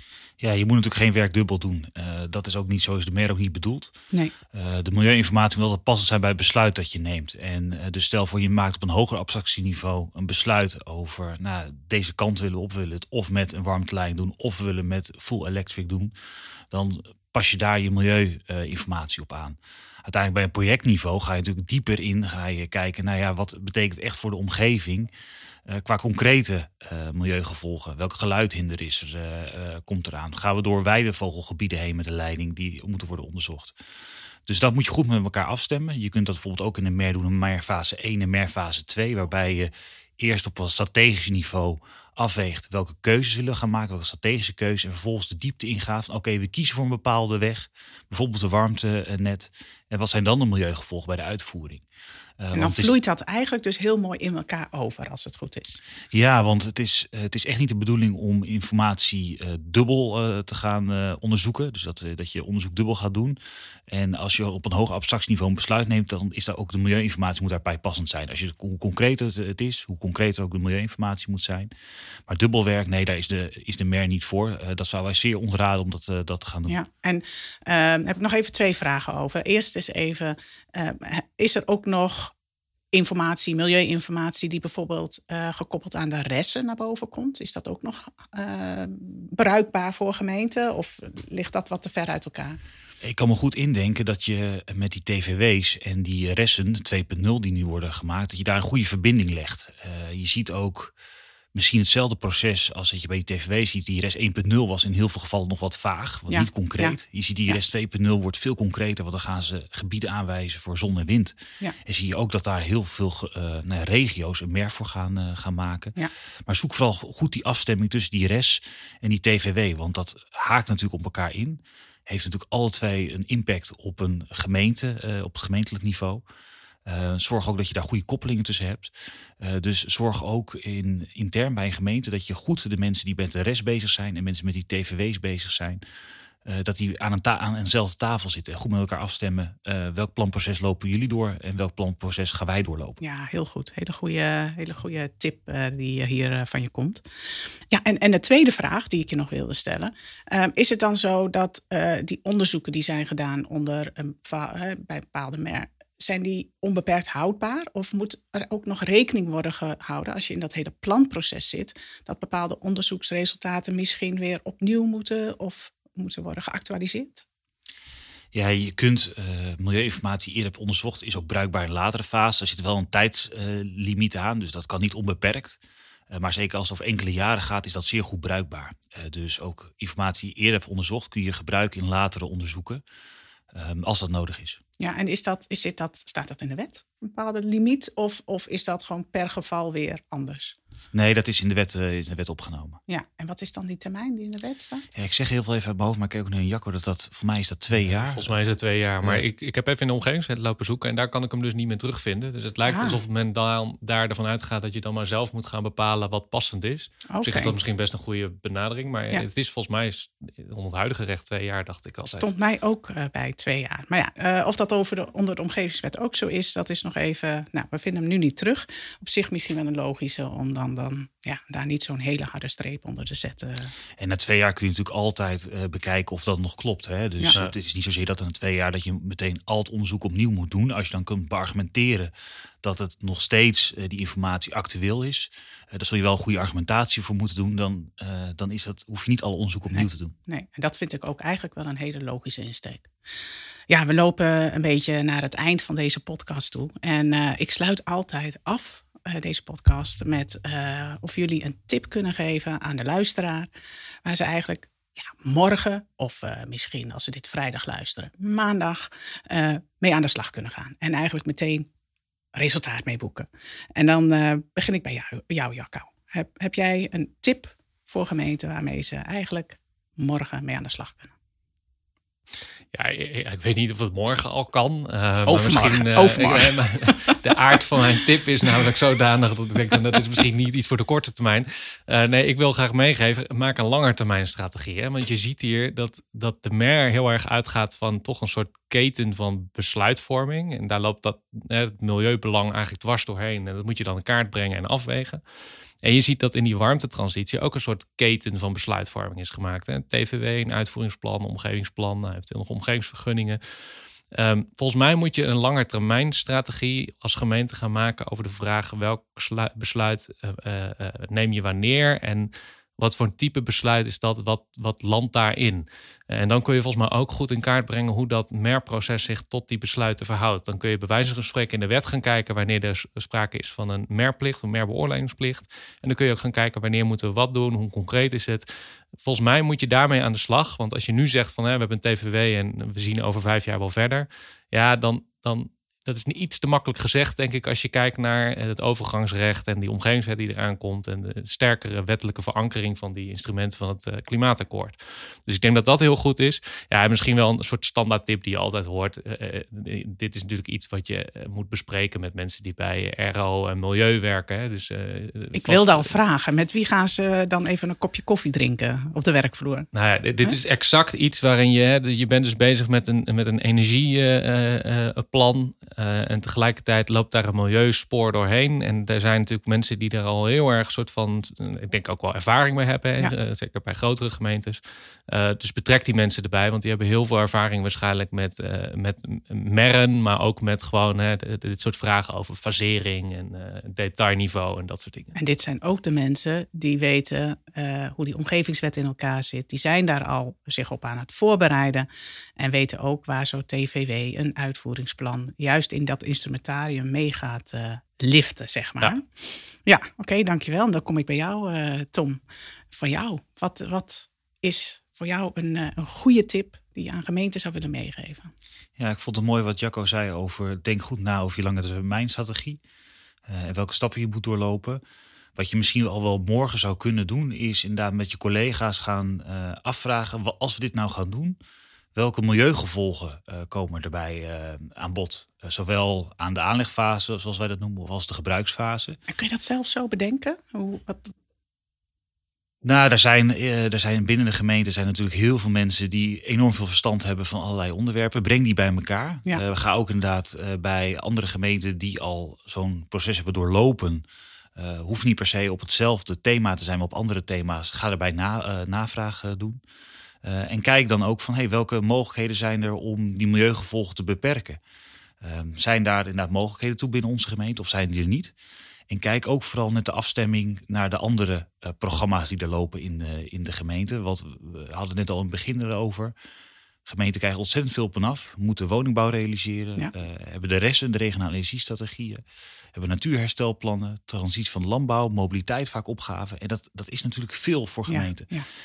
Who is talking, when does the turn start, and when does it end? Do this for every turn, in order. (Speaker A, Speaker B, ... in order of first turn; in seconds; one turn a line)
Speaker A: 0.4-3.9
Speaker A: 4.5-16.1
Speaker A: 16.7-25.1
Speaker A: 25.7-33.8
Speaker A: 34.5-51.8
Speaker A: 52.4-53.0
Speaker B: 52.5-55.8
Speaker A: 56.1-63.4
Speaker A: 63.9-71.7
Speaker A: 72.3-76.8
Speaker B: 76.7-82.3
Speaker B: 82.9-92.6
Speaker A: 93.0-100.9
Speaker A: 101.5-126.2
Speaker B: 106.3-107.0
Speaker A: 126.8-135.8
Speaker A: 136.4-143.0
Speaker B: 143.0-147.0
Speaker B: 147.7-167.2
Speaker A: 168.3-175.6
Speaker A: 176.1-182.8
Speaker A: 183.5-184.6
Speaker B: 184.8-190.6
Speaker A: 190.9-192.8
Speaker B: 192.9-194.9
Speaker A: 194.9-198.3
Speaker C: 197.8-212.3
Speaker B: 202.7-203.0
Speaker B: 207.1-207.6
Speaker B: 212.1-223.7
Speaker A: 224.0-232.1
Speaker A: 232.6-240.1
Speaker B: 239.7-242.9
Speaker B: 243.7-253.5
Speaker B: 254.1-261.7
Speaker B: 262.4-271.1
Speaker C: 272.7-295.2
Speaker B: 275.3-277.2
Speaker C: 295.8-303.4
Speaker C: 304.1-328.5
Speaker C: 329.0-355.9
Speaker B: 355.4-359.7
Speaker C: 359.7-385.2
Speaker B: 385.2-391.9
Speaker B: 392.4-402.2
Speaker B: 402.7-408.3
Speaker A: 408.8-412.6
Speaker A: 413.3-414.8
Speaker A: 415.4-421.4
Speaker A: 421.9-429.0
Speaker B: 429.1-431.1
Speaker A: 432.6-444.1
Speaker A: 444.6-449.6
Speaker A: 450.2-454.6
Speaker A: 455.2-458.3
Speaker A: 458.9-466.1
Speaker A: 466.9-472.2
Speaker A: 472.7-478.3
Speaker B: 477.9-478.5